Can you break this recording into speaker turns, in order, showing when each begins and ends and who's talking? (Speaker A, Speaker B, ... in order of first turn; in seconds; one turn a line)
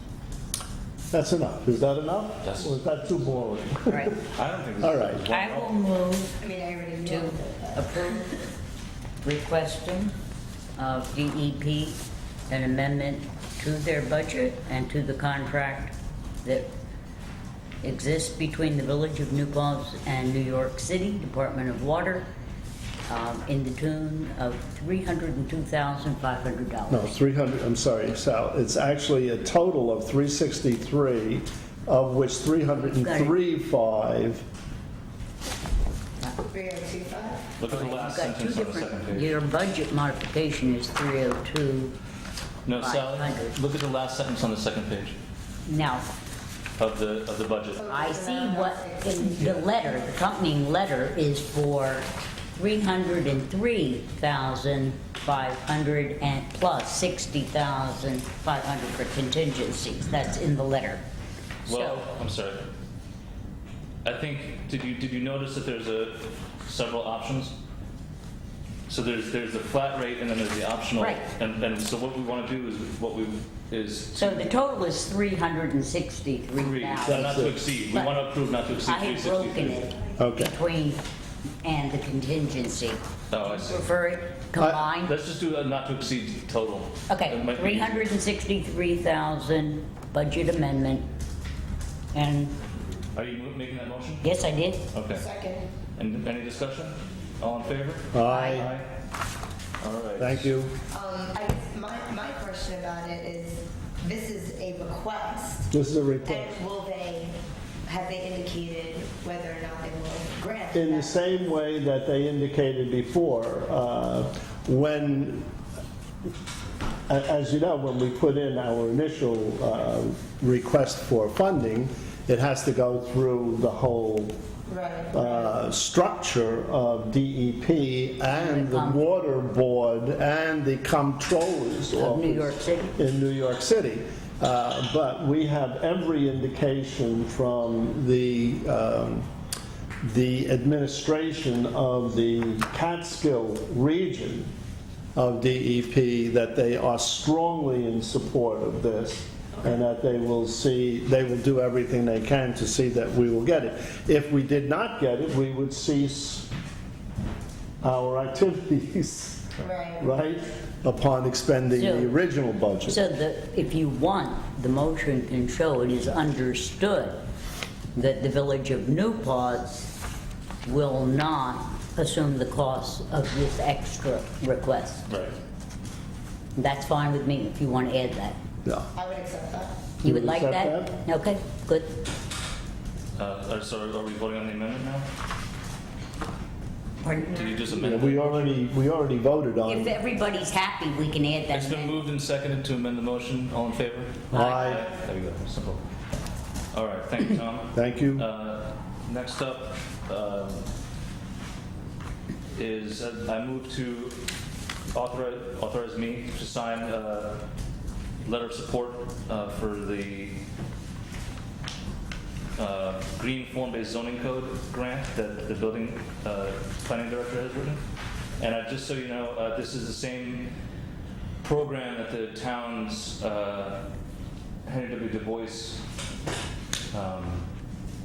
Speaker A: 1.1-4.3
Speaker B: 2.4-2.8
Speaker C: 3.9-4.2
Speaker B: 4.2-5.8
Speaker A: 4.8-5.3
Speaker C: 5.3-6.4
Speaker D: 6.4-8.3
Speaker C: 7.0-8.4
Speaker C: 9.2-10.1
Speaker C: 10.8-16.7
Speaker C: 17.8-22.3
Speaker C: 23.1-27.1
Speaker A: 26.9-34.4
Speaker C: 32.8-33.4
Speaker D: 36.5-37.5
Speaker B: 37.6-39.3
Speaker C: 37.7-42.0
Speaker B: 42.7-45.2
Speaker C: 42.7-43.6
Speaker C: 45.7-46.1
Speaker B: 46.8-47.9
Speaker D: 47.8-50.0
Speaker C: 47.9-61.0
Speaker B: 61.7-62.7
Speaker C: 61.7-62.0
Speaker B: 64.0-67.5
Speaker B: 68.9-74.6
Speaker C: 71.0-71.3
Speaker C: 74.2-78.2
Speaker B: 76.5-79.9
Speaker A: 77.0-77.7
Speaker C: 78.8-81.0
Speaker A: 80.2-80.6
Speaker C: 81.6-85.2
Speaker B: 83.3-83.8
Speaker A: 84.6-84.8
Speaker B: 85.0-88.1
Speaker C: 87.1-91.0
Speaker C: 92.1-92.5
Speaker B: 93.1-94.4
Speaker C: 94.2-94.9
Speaker B: 94.9-95.2
Speaker D: 95.1-95.7
Speaker B: 96.0-98.9
Speaker A: 98.1-98.7
Speaker C: 98.2-98.7
Speaker B: 99.8-100.5
Speaker A: 100.2-100.8
Speaker D: 100.9-105.7
Speaker A: 105.7-106.5
Speaker D: 106.2-111.2
Speaker A: 110.7-115.5
Speaker A: 117.1-124.4
Speaker D: 124.7-125.5
Speaker A: 125.1-139.3
Speaker C: 128.3-129.0
Speaker C: 131.9-133.0
Speaker A: 140.0-144.5
Speaker A: 145.2-156.5
Speaker A: 157.8-163.0
Speaker D: 159.6-160.1
Speaker C: 161.7-162.2
Speaker C: 162.9-167.2
Speaker C: 167.9-169.9
Speaker C: 170.6-175.1
Speaker B: 175.1-175.4
Speaker C: 176.6-178.4
Speaker D: 178.9-179.8
Speaker C: 180.0-182.0
Speaker A: 180.0-181.0
Speaker B: 183.2-185.1
Speaker C: 187.0-187.7
Speaker B: 187.3-188.5
Speaker A: 187.7-190.0
Speaker C: 189.7-192.1
Speaker B: 191.5-195.8
Speaker A: 194.3-194.9
Speaker B: 196.7-200.7
Speaker A: 197.7-198.3
Speaker B: 202.6-204.2
Speaker B: 204.9-207.5
Speaker B: 208.2-210.4
Speaker B: 212.6-217.8
Speaker B: 218.4-220.5
Speaker B: 221.4-223.9
Speaker B: 224.7-225.8
Speaker B: 226.9-227.5